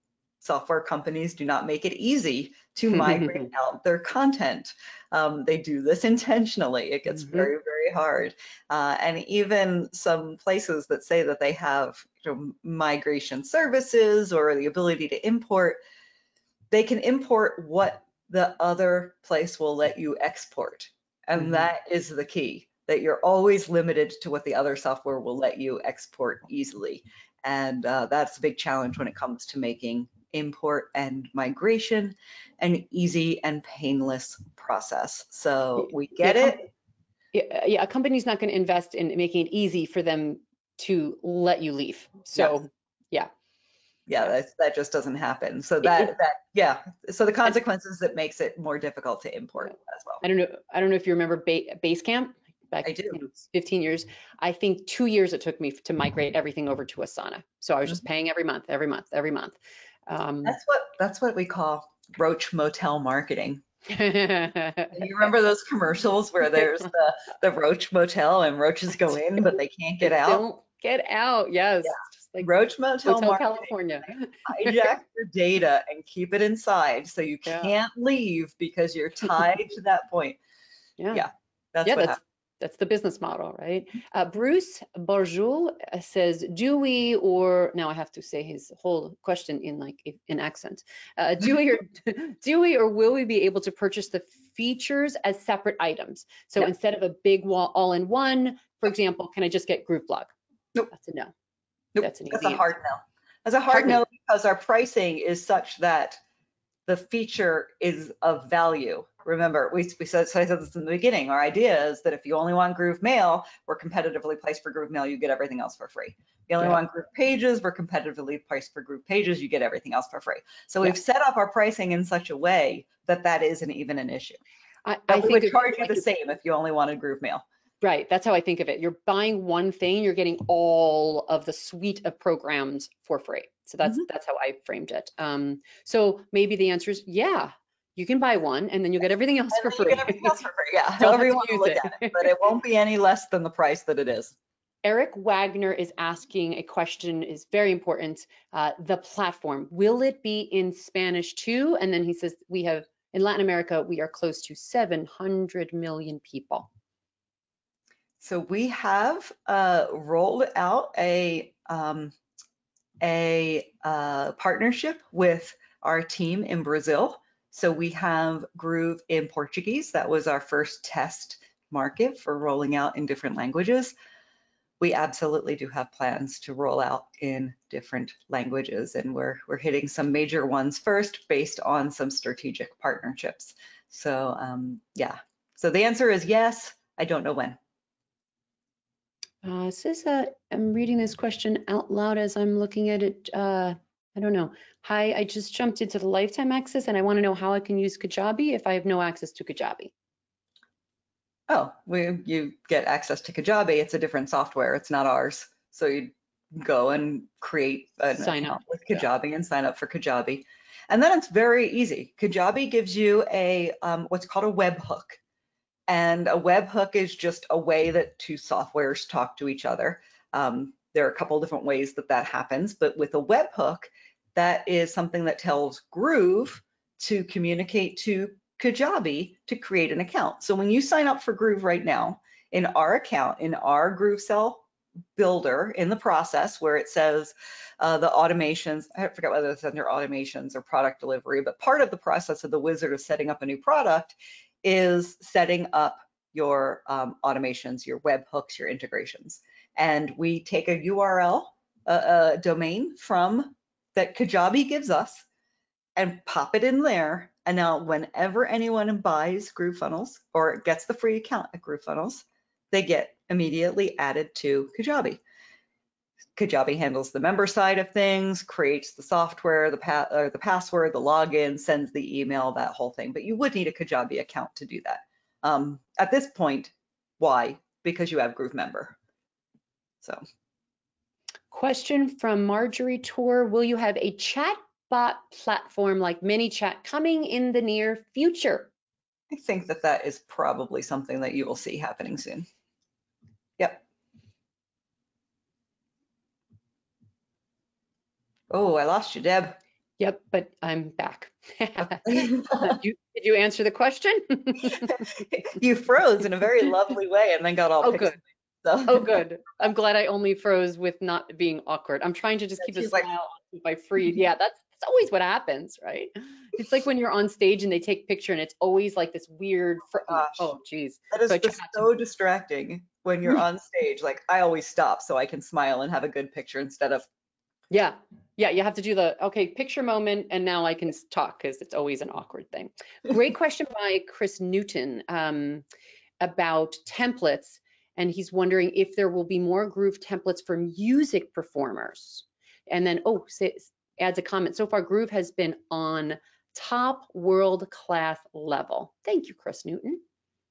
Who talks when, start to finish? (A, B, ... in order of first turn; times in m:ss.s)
0:00.4-0:15.8 A
0:02.9-0:03.5 B
0:07.2-0:07.5 B
0:16.7-0:36.7 A
0:21.4-0:21.6 B
0:36.2-0:36.6 B
0:37.3-0:43.3 B
0:44.1-0:50.2 A
0:45.8-0:46.1 B
0:50.2-1:00.6 B
0:52.8-0:53.2 A
1:00.4-1:03.6 A
1:03.9-1:05.0 B
1:04.9-1:10.4 A
1:10.0-1:12.5 B
1:11.8-1:13.7 A
1:13.0-1:14.9 B
1:14.4-1:20.4 A
1:17.4-1:17.7 B
1:21.0-1:21.2 B
1:21.1-1:22.2 A
1:21.8-1:40.3 B
1:40.9-1:41.3 B
1:41.9-1:46.2 A
1:42.0-1:42.6 B
1:43.7-1:44.0 B
1:46.9-2:04.4 A
2:04.8-2:06.0 B
2:05.1-2:07.4 A
2:07.8-2:20.4 B
2:19.5-2:24.3 A
2:21.0-2:22.3 B
2:24.8-2:36.7 B
2:38.2-2:42.1 A
2:43.0-2:53.9 A
2:54.8-3:07.6 A
3:09.4-3:19.9 B
3:21.5-3:35.2 A
3:28.2-3:29.0 B
3:35.9-3:54.6 A
3:55.2-4:15.2 A
4:16.0-4:25.2 A
4:26.4-4:39.0 A
4:41.5-4:48.7 B
4:49.3-4:52.5 A
4:58.5-4:59.6 A
5:00.0-5:05.0 B
5:02.0-5:02.7 A
5:04.7-5:09.2 A
5:07.8-5:08.2 B
5:08.9-5:21.9 B
5:12.6-5:13.1 A
5:20.1-5:20.5 A
5:21.1-5:27.1 A
5:27.7-5:35.6 B
5:36.2-5:50.0 B